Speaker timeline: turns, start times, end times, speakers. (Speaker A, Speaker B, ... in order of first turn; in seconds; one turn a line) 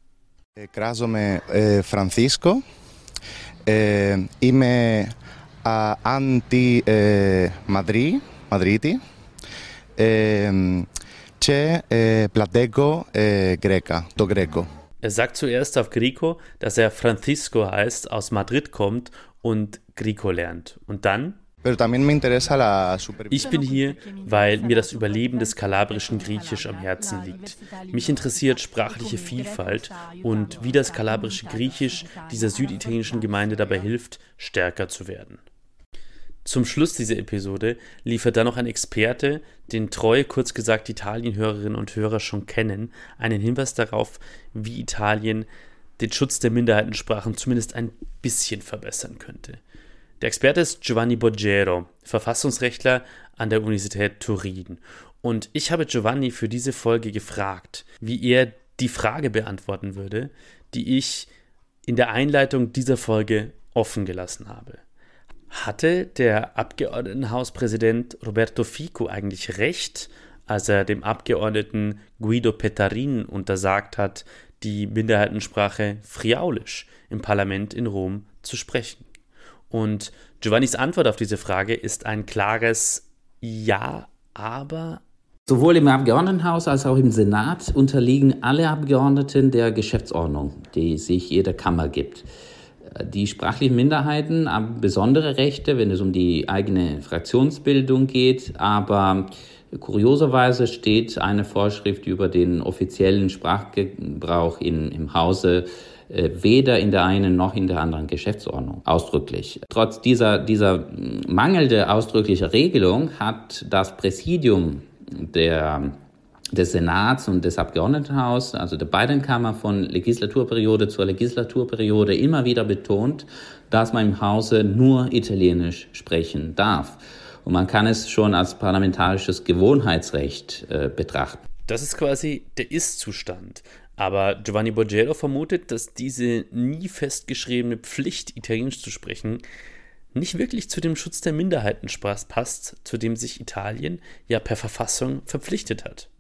Speaker A: 0.6-2.6
Speaker A: 3.7-5.1
Speaker A: 5.7-9.0
Speaker A: 10.0-10.9
Speaker A: 11.4-14.7
Speaker B: 15.0-21.4
Speaker A: 21.6-23.5
Speaker B: 23.3-35.4
Speaker B: 36.5-45.5
Speaker B: 46.0-49.6
Speaker B: 50.2-61.3
Speaker B: 61.9-64.8
Speaker B: 65.5-79.1
Speaker B: 79.7-85.0
Speaker C: 85.5-92.3
Speaker C: 93.0-116.0
Speaker C: 116.5-131.4
Speaker B: 131.7-139.4
Speaker B: 140.1-146.1